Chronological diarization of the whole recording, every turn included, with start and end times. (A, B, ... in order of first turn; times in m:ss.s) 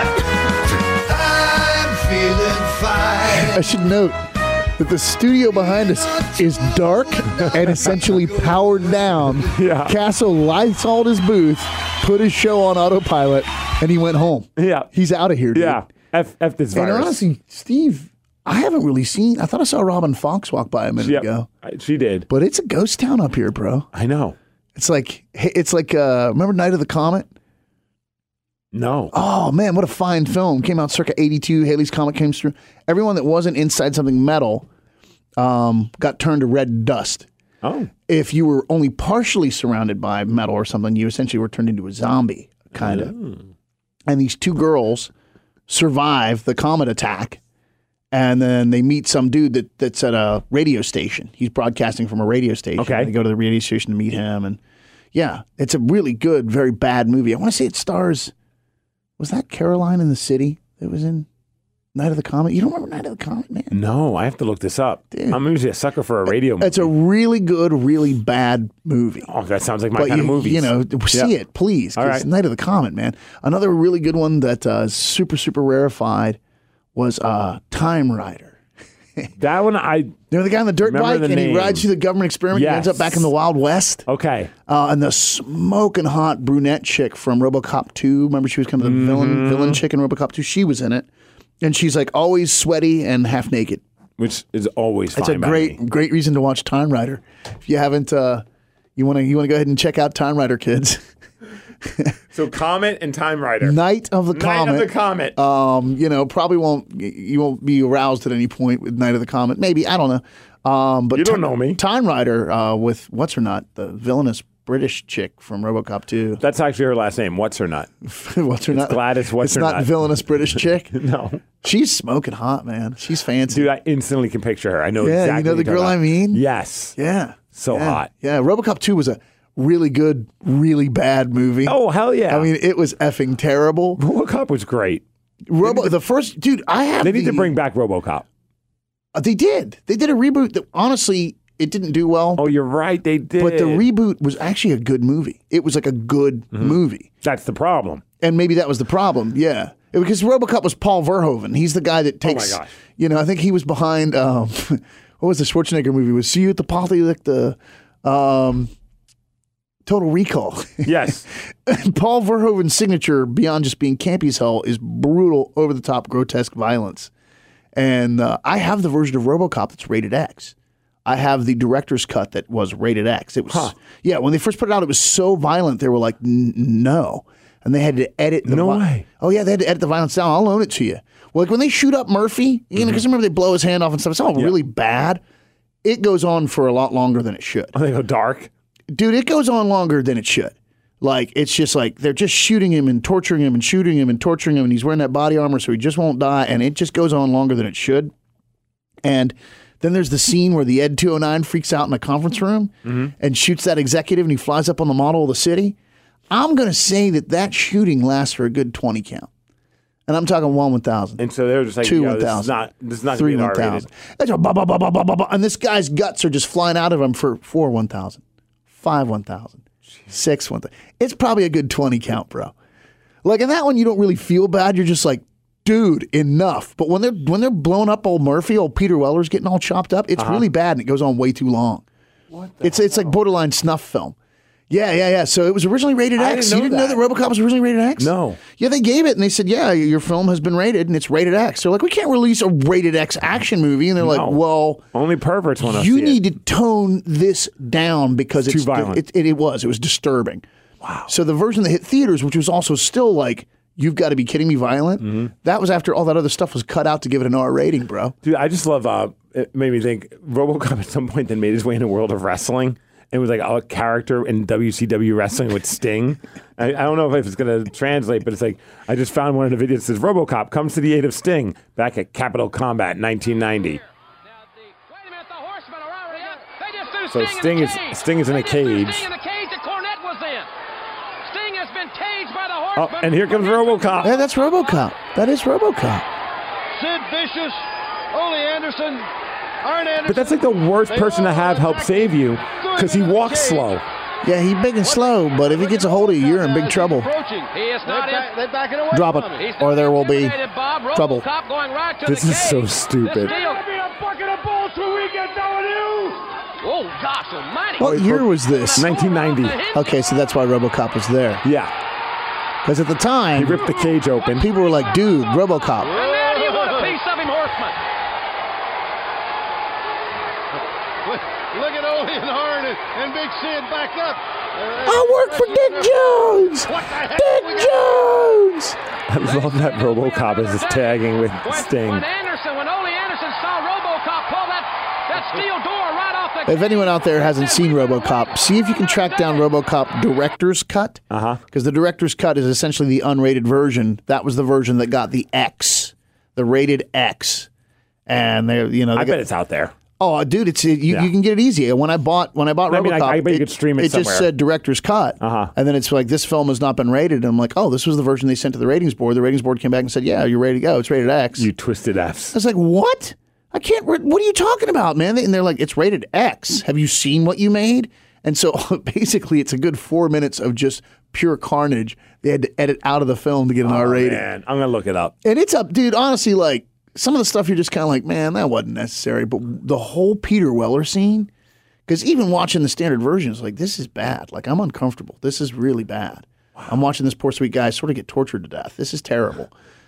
0:00.9-0:03.6 A
0:03.4-0:04.2 B
0:04.8-0:15.8 B
0:05.6-0:09.0 A
0:09.4-0:10.0 C
0:14.6-0:14.9 C
0:15.5-0:17.2 C
0:16.7-0:21.5 B
0:21.0-0:22.3 C
0:22.3-0:23.9 B
0:23.9-0:24.4 C
0:24.7-0:27.3 B
0:28.7-0:29.1 C
0:29.1-0:34.7 B
0:35.4-0:37.3 B
0:37.6-0:37.9 C
0:38.1-0:43.1 B
0:42.7-0:43.5 C
0:44.1-0:45.1 B
0:45.7-0:47.4 B
0:48.1-0:54.6 B
0:52.8-0:53.1 C
0:55.1-0:58.3 B
0:59.2-1:01.3 B
1:01.9-1:03.8 B
1:03.7-1:06.9 C
1:05.1-1:05.4 B
1:06.3-1:09.3 B
1:09.3-1:11.3 C
1:09.9-1:16.4 B
1:12.0-1:12.3 C
1:16.9-1:18.6 B
1:19.4-1:20.2 C
1:20.3-1:24.0 B
1:20.8-1:21.8 C
1:22.5-1:23.3 C
1:24.1-1:24.5 C
1:24.7-1:31.1 B
1:28.8-1:29.8 C
1:31.6-1:33.8 B
1:34.2-1:35.8 C
1:35.1-1:38.4 B
1:39.0-1:41.0 B
1:41.8-1:42.1 B
1:42.3-1:43.8 C
1:43.6-1:56.4 B
1:44.3-1:45.4 C
1:51.1-1:51.8 C
1:56.4-1:57.9 C
1:58.0-2:00.9 B
1:58.7-1:59.9 C
2:00.9-2:01.4 C
2:01.6-2:03.7 B
2:03.5-2:07.0 C
2:05.0-2:06.4 B
2:07.0-2:14.0 B
2:07.5-2:08.1 C
2:11.6-2:12.5 C
2:14.0-2:15.0 C
2:15.5-2:17.6 B
2:15.6-2:15.9 C
2:17.0-2:18.2 C
2:19.1-2:22.5 B
2:22.4-2:23.8 C
2:23.4-2:27.1 B
2:26.5-2:28.0 C
2:28.2-2:38.7 B
2:32.2-2:32.7 C
2:39.8-2:47.1 B
2:40.8-2:41.2 C
2:47.7-3:05.2 B
2:53.5-2:53.7 C
2:58.4-2:59.0 C
3:02.8-3:03.0 C
3:05.8-3:07.7 B
3:07.7-3:08.5 C
3:08.9-3:18.1 B
3:19.0-3:25.8 B
3:22.8-3:23.1 C
3:26.3-3:29.3 B
3:30.1-3:31.2 B
3:31.2-3:33.9 C
3:31.8-3:32.6 B
3:33.1-3:42.5 B
3:43.2-3:51.8 B
3:50.2-3:50.5 C
3:52.3-3:53.1 C
3:52.6-3:54.1 B
3:54.7-4:04.8 B
3:56.2-3:57.0 C
3:58.0-3:58.4 C
4:04.0-4:04.4 C
4:04.9-4:06.2 C
4:05.6-4:10.4 B
4:08.4-4:09.0 C
4:10.8-4:11.1 C
4:11.1-4:18.2 B
4:15.0-4:15.3 C
4:18.2-4:33.8 C
4:33.7-4:40.5 D
4:37.1-4:39.0 C
4:41.2-4:44.3 D
4:42.8-4:44.2 C
4:44.0-4:46.0 B
4:46.8-4:47.5 D
4:48.2-4:48.9 D
4:50.0-4:53.8 C
4:54.2-4:57.1 B
4:56.9-4:58.5 D
4:58.9-5:00.4 B
5:00.3-5:09.8 D
5:00.9-5:01.2 B
5:02.0-5:03.3 C
5:07.8-5:08.9 B
5:07.8-5:09.6 C
5:09.7-5:11.4 B
5:11.4-5:11.7 C
5:12.6-5:13.7 B
5:13.3-5:14.5 C
5:14.4-5:16.0 B
5:15.8-5:17.8 D
5:21.5-5:23.8 D
5:24.8-5:28.8 B
5:29.1-5:32.0 C
5:29.3-5:38.3 D
5:36.4-5:47.5 B
5:39.0-5:39.3 D
5:41.1-5:41.4 C
5:48.1-5:49.2 B
5:48.9-5:49.7 C
5:50.0-6:01.5 B
5:52.7-5:54.3 C
5:55.2-5:55.5 C
6:01.4-6:02.3 C
6:02.3-6:14.2 B
6:13.6-6:15.1 C
6:15.2-6:21.3 B
6:21.9-6:29.5 B